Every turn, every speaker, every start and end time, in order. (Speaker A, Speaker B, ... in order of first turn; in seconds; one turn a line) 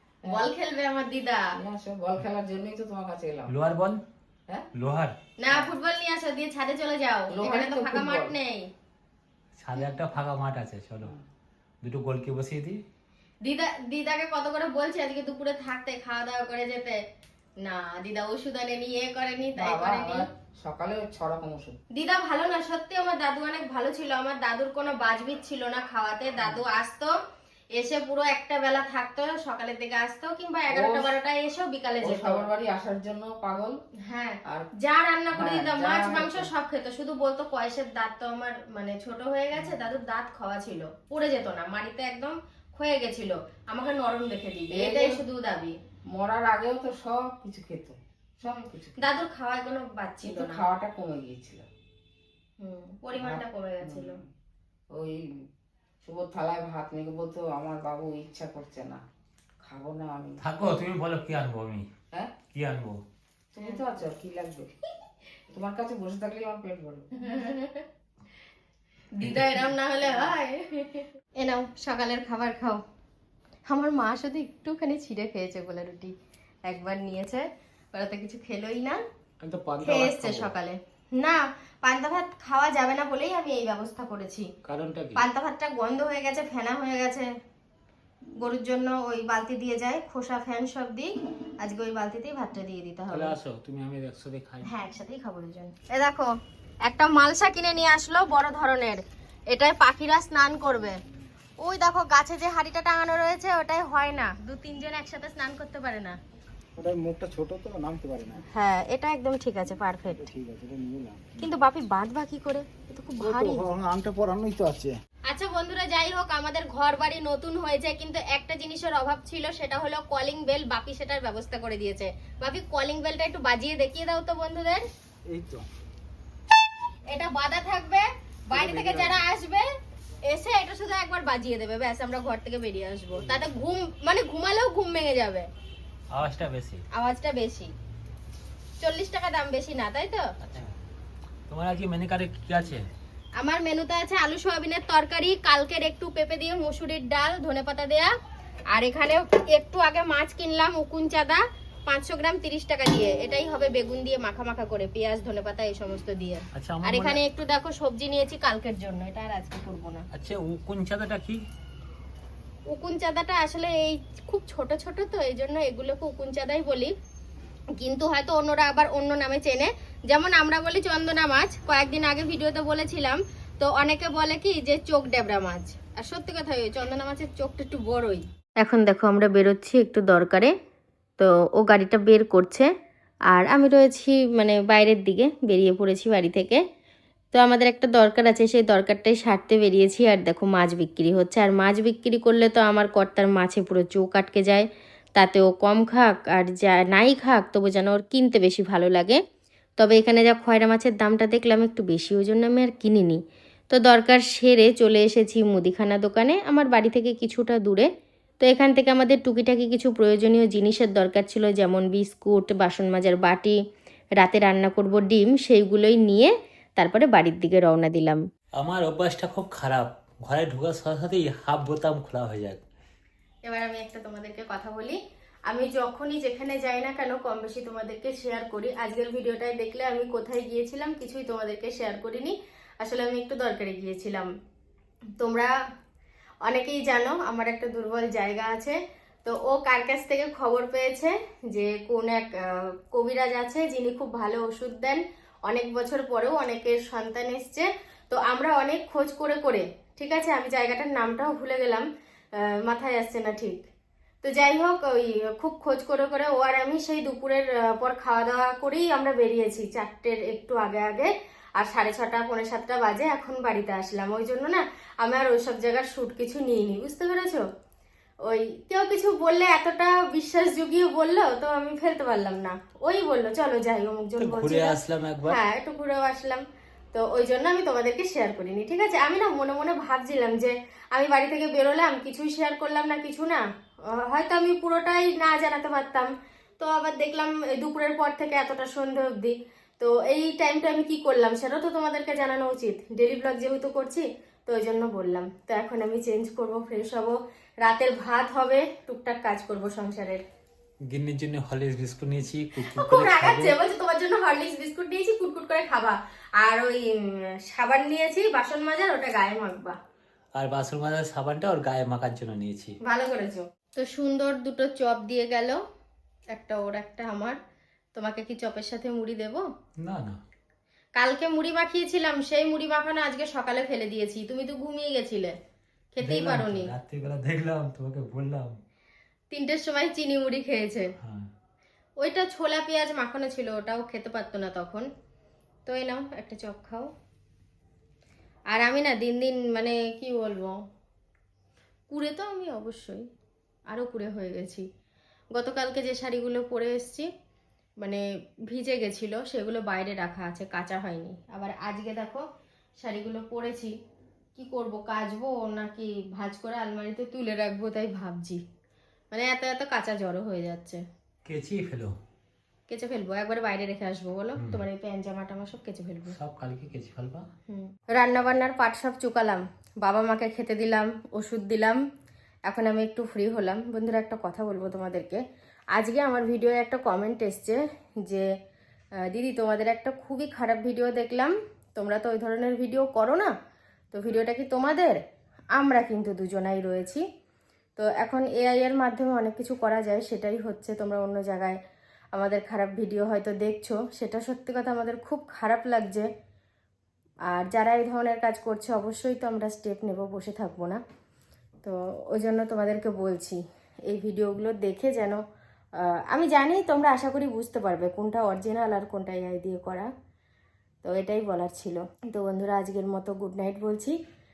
Speaker A: 0.2-0.5
Speaker B: 0.3-1.5
Speaker A: 1.6-3.5
Speaker C: 3.5-4.0
Speaker C: 4.8-5.2
Speaker B: 5.4-8.7
Speaker A: 7.3-8.3
Speaker C: 9.6-11.1
Speaker C: 11.8-12.8
Speaker B: 13.4-17.0
Speaker B: 17.6-20.2
Speaker A: 19.6-21.8
Speaker B: 21.9-27.1
Speaker B: 27.8-32.5
Speaker A: 30.7-31.2
Speaker A: 32.0-33.8
Speaker B: 34.0-45.8
Speaker A: 35.3-36.5
Speaker A: 44.7-45.2
Speaker A: 46.1-49.0
Speaker B: 49.0-50.7
Speaker A: 50.2-51.7
Speaker B: 52.6-54.2
Speaker A: 53.1-54.2
Speaker A: 54.9-55.3
Speaker A: 56.0-59.0
Speaker A: 59.6-60.8
Speaker C: 60.4-61.9
Speaker C: 62.5-63.0
Speaker A: 63.5-64.7
Speaker A: 65.5-67.1
Speaker B: 67.2-67.8
Speaker B: 69.2-72.8
Speaker C: 69.2-69.7
Speaker A: 70.1-70.3
Speaker B: 73.7-76.1
Speaker B: 76.7-79.0
Speaker C: 79.4-80.5
Speaker B: 79.8-84.5
Speaker C: 84.7-85.2
Speaker B: 85.2-87.3
Speaker B: 88.4-93.3
Speaker C: 93.1-94.7
Speaker B: 94.6-96.3
Speaker B: 96.8-101.0
Speaker B: 101.6-106.2
Speaker D: 106.8-108.4
Speaker B: 108.5-110.2
Speaker D: 110.2-111.4
Speaker B: 111.4-113.7
Speaker D: 113.2-115.0
Speaker B: 115.3-124.8
Speaker D: 125.3-125.7
Speaker B: 127.1-129.7
Speaker C: 128.5-129.2
Speaker B: 130.2-135.5
Speaker C: 136.1-136.8
Speaker B: 136.9-137.7
Speaker B: 138.8-140.3
Speaker C: 140.4-140.7
Speaker C: 141.5-142.9
Speaker B: 143.4-148.1
Speaker B: 148.7-160.1
Speaker C: 156.6-157.2
Speaker C: 160.1-161.4
Speaker B: 162.7-166.9
Speaker B: 167.8-180.5
Speaker B: 181.2-182.7
Speaker B: 183.3-186.6
Speaker B: 187.3-199.2
Speaker B: 199.8-203.2
Speaker B: 203.7-207.9
Speaker B: 208.4-213.6
Speaker B: 214.2-218.2
Speaker C: 218.6-222.6
Speaker B: 223.5-225.0
Speaker B: 225.5-234.3
Speaker B: 235.2-235.5
Speaker B: 236.5-251.8
Speaker B: 252.4-253.6
Speaker B: 254.2-267.4
Speaker B: 268.3-300.2
Speaker C: 274.2-275.4
Speaker C: 300.9-303.5
Speaker B: 302.6-309.8
Speaker C: 310.4-312.7
Speaker B: 312.9-315.6
Speaker B: 316.3-317.4
Speaker B: 317.9-319.4
Speaker C: 319.8-320.2
Speaker B: 321.0-325.3
Speaker B: 325.9-326.7
Speaker C: 326.0-328.5
Speaker B: 329.3-330.9
Speaker B: 332.0-334.9
Speaker B: 335.7-336.9
Speaker B: 338.5-340.6
Speaker B: 341.9-343.0
Speaker B: 343.7-344.6
Speaker B: 345.3-347.1
Speaker B: 347.8-352.2
Speaker B: 352.8-353.8
Speaker B: 354.4-358.4
Speaker B: 359.1-360.8
Speaker C: 361.3-361.9
Speaker B: 362.7-366.1
Speaker C: 364.4-364.6
Speaker C: 366.1-367.2
Speaker B: 367.5-371.8
Speaker B: 372.5-375.2
Speaker B: 375.8-378.3
Speaker B: 379.1-383.3
Speaker B: 383.9-385.0
Speaker B: 385.6-387.0
Speaker B: 387.8-391.6
Speaker B: 392.1-396.1
Speaker B: 397.3-400.8
Speaker B: 401.6-405.2
Speaker B: 405.8-409.9
Speaker B: 410.8-414.0